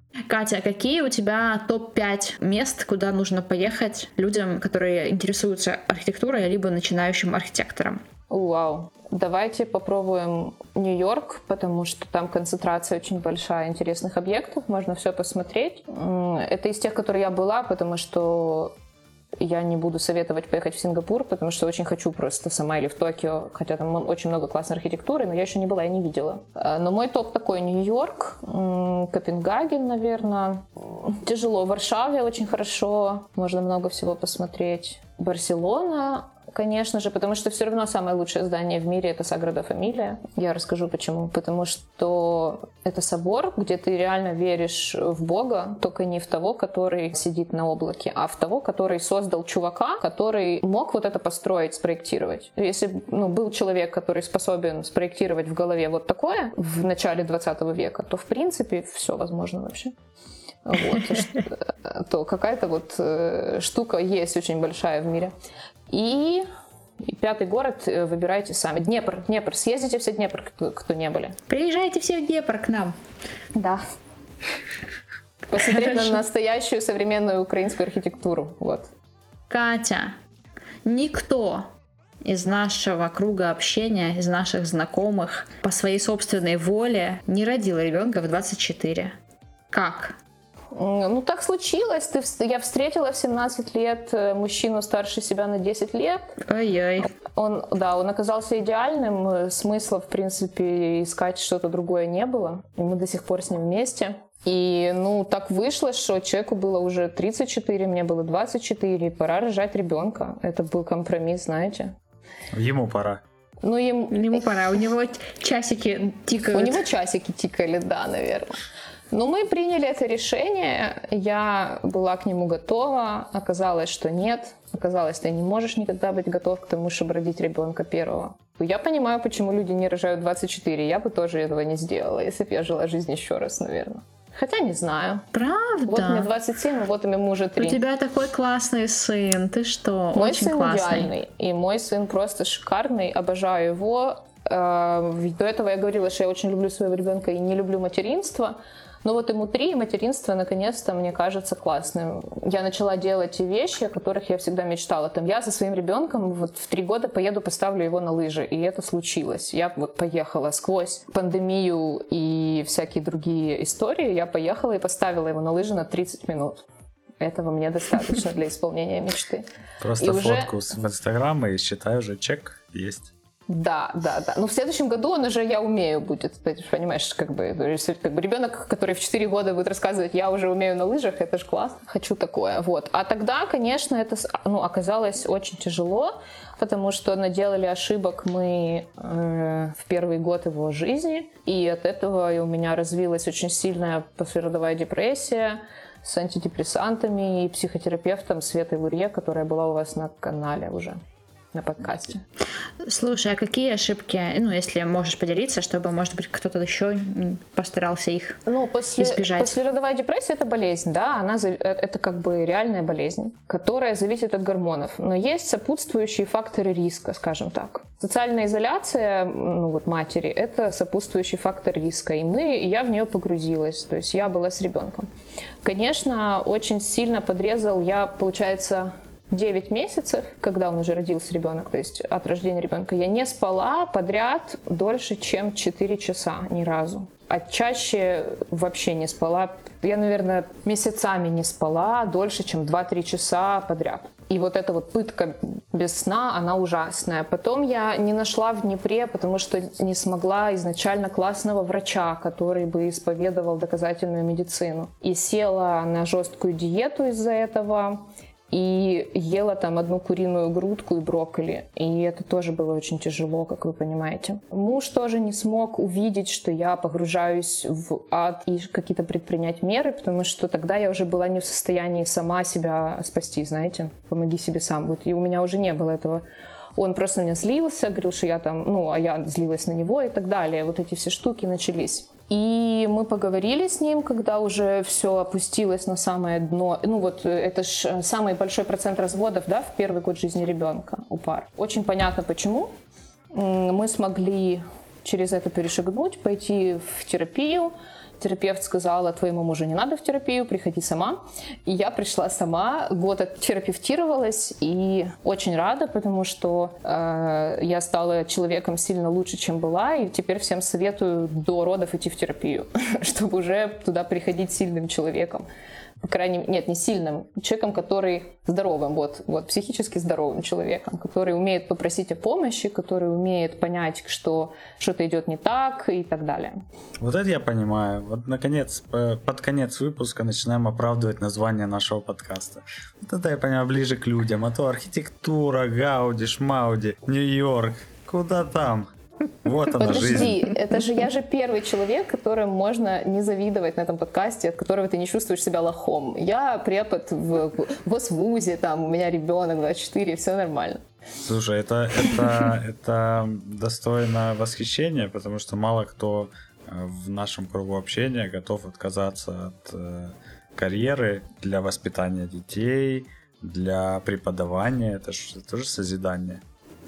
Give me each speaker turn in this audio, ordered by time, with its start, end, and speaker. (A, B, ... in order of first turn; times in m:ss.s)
0:00.3-0:08.0 A
0:08.3-0:18.8 B
0:19.4-0:59.9 B
1:00.6-1:05.3 B
1:05.9-1:06.4 B
1:07.0-1:11.4 B
1:11.5-1:12.9 A
1:13.5-1:13.8 B
1:15.5-1:18.9 B
1:19.5-1:20.2 A
1:20.8-1:21.7 A
1:22.2-1:29.1 A
1:29.7-1:30.2 A
1:30.7-1:36.4 B
1:36.4-1:37.1 A
1:37.3-1:51.9 B
1:52.5-1:53.2 C
1:53.6-1:54.5 B
1:54.1-1:56.8 A
1:56.5-1:58.6 B
1:59.1-2:15.3 B
2:15.3-2:16.3 A
2:15.9-2:17.8 B
2:17.6-2:21.1 A
2:20.1-2:46.6 B
2:47.2-2:49.4 B
2:49.8-2:53.1 C
2:50.0-2:50.5 B
2:53.5-3:21.0 B
3:21.5-3:22.2 B
3:22.8-3:28.4 A
3:28.4-3:45.1 B
3:29.0-3:29.5 A
3:45.6-4:36.2 B
4:36.8-4:52.7 B
4:53.3-5:15.4 B
5:16.0-5:26.6 B
5:27.0-5:38.9 C
5:39.4-5:40.4 C
5:39.8-5:50.8 B
5:51.2-6:06.4 C